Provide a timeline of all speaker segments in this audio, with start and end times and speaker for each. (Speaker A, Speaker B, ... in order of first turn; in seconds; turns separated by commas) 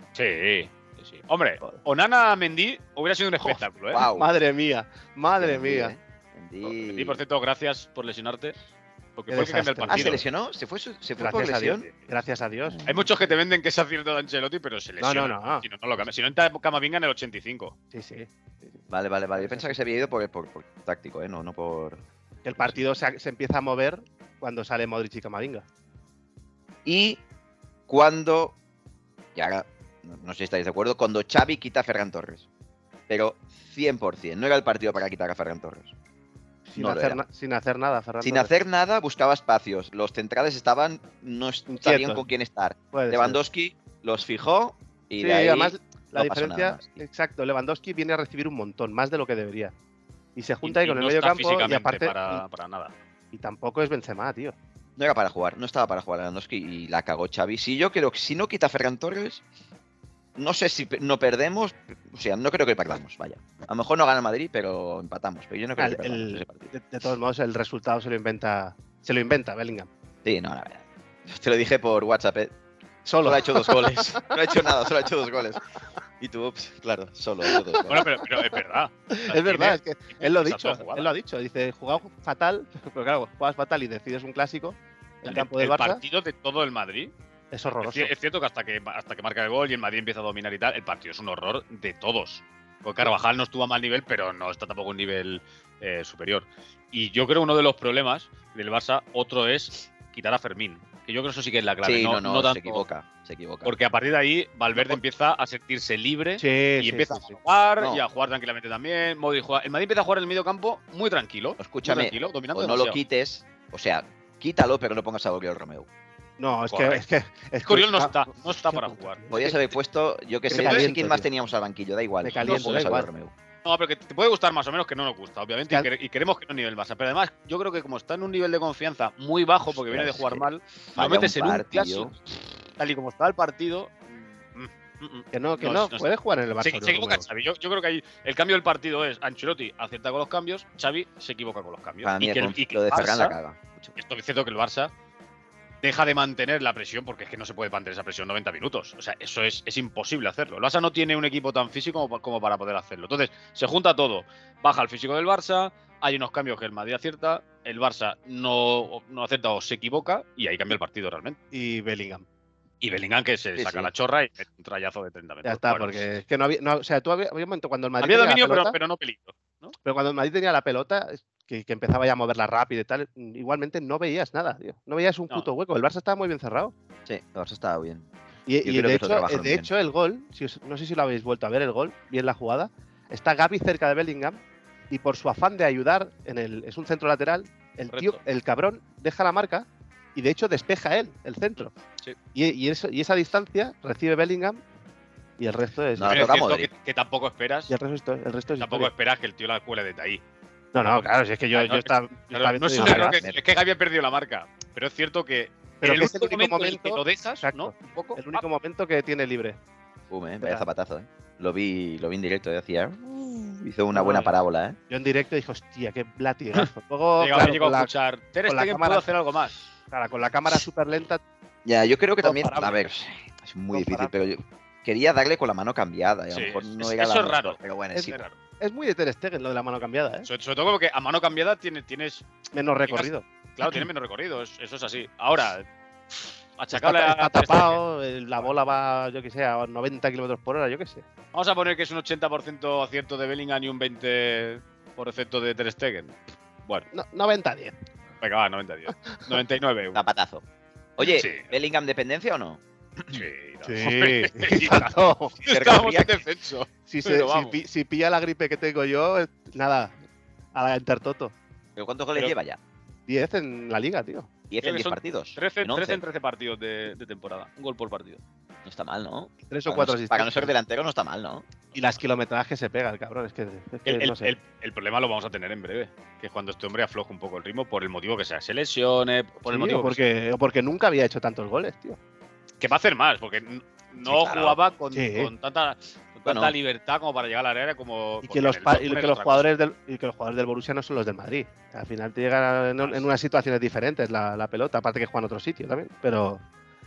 Speaker A: 0.1-4.0, Speaker B: 3.9-4.3, Speaker C: 4.1-5.9, Speaker B: 5.4-7.2, Speaker A: 6.6-8.6, Speaker A: 9.2-10.2, Speaker C: 9.3-10.2, Speaker B: 9.9-11.9, Speaker C: 11.2-12.8, Speaker B: 12.7-13.1, Speaker A: 12.8-17.7, Speaker C: 15.0-15.6, Speaker C: 17.9-18.8, Speaker B: 18.9-22.0, Speaker C: 19.3-19.7, Speaker C: 22.4-25.6, Speaker B: 26.8-27.2, Speaker B: 27.9-28.6, Speaker B: 29.3-32.4, Speaker B: 33.1-35.9, Speaker C: 36.7-38.5, Speaker B: 36.8-37.2, Speaker B: 38.2-47.0, Speaker C: 41.7-42.2, Speaker C: 42.9-43.4, Speaker C: 45.2-49.7, Speaker C: 50.4-52.4, Speaker A: 50.6-52.9, Speaker C: 53.3-54.5, Speaker B: 55.0-59.4, Speaker B: 60.4-66.7, Speaker C: 65.8-69.9, Speaker B: 70.2-72.5, Speaker C: 73.0-74.3, Speaker B: 73.2-75.6, Speaker B: 76.2-78.0, Speaker C: 77.5-78.5, Speaker A: 77.9-81.1, Speaker C: 79.1-86.0, Speaker A: 85.2-87.1, Speaker C: 87.5-88.1, Speaker A: 87.8-102.8, Speaker B: 101.8-103.8, Speaker A: 103.6-113.0, Speaker C: 106.4-107.4, Speaker B: 111.6-115.9, Speaker C: 116.4-119.5, Speaker A: 116.7-117.0, Speaker A: 117.6-119.5, Speaker B: 119.3-123.3, Speaker C: 120.5-121.3, Speaker A: 120.5-120.9, Speaker C: 122.2-123.1, Speaker A: 122.4-122.9, Speaker A: 123.6-132.2, Speaker B: 129.8-132.1, Speaker A: 132.8-136.1, Speaker C: 135.3-137.2, Speaker A: 136.6-143.4, Speaker B: 142.0-143.9, Speaker A: 143.9-144.9, Speaker A: 145.8-161.4, Speaker C: 161.5-162.2, Speaker A: 162.8-166.0, Speaker B: 163.6-163.9, Speaker C: 165.4-168.8, Speaker A: 168.0-169.7, Speaker C: 169.8-176.7, Speaker B: 177.1-178.1, Speaker C: 178.5-184.4, Speaker B: 178.6-179.7, Speaker C: 184.9-191.7, Speaker A: 187.9-188.2, Speaker A: 191.6-192.2, Speaker C: 192.3-194.6, Speaker C: 195.4-196.3, Speaker B: 195.9-196.7, Speaker A: 196.1-197.7, Speaker C: 197.7-198.9, Speaker A: 198.6-200.2, Speaker C: 200.7-203.2, Speaker A: 201.5-208.4, Speaker B: 202.8-203.4, Speaker C: 205.8-209.6, Speaker B: 210.1-214.8, Speaker C: 210.4-210.7, Speaker C: 213.9-214.2, Speaker C: 214.9-217.9, Speaker A: 217.2-219.6, Speaker C: 218.5-219.1, Speaker C: 219.9-221.2, Speaker B: 221.6-228.2, Speaker C: 222.2-222.8, Speaker C: 223.7-224.1, Speaker A: 226.3-228.3, Speaker C: 227.9-230.3, Speaker A: 230.2-232.2, Speaker C: 232.5-233.8, Speaker A: 232.9-237.8, Speaker C: 236.7-241.0, Speaker A: 241.3-246.8, Speaker C: 246.9-247.8, Speaker A: 248.2-250.0, Speaker C: 249.0-249.3, Speaker B: 249.9-250.4, Speaker B: 251.0-253.2, Speaker A: 251.0-251.5, Speaker A: 253.1-257.6, Speaker C: 253.6-255.3, Speaker B: 255.4-256.2, Speaker C: 256.9-259.9, Speaker C: 260.5-261.3, Speaker B: 261.8-262.6, Speaker C: 263.1-264.3, Speaker B: 264.5-266.0, Speaker A: 264.6-268.2, Speaker B: 268.6-271.5, Speaker C: 269.5-270.5, Speaker C: 271.7-274.3, Speaker A: 273.9-280.0, Speaker C: 279.5-282.0, Speaker A: 282.6-289.5, Speaker B: 284.0-284.6, Speaker C: 284.9-285.3, Speaker B: 286.2-286.5, Speaker C: 288.2-296.4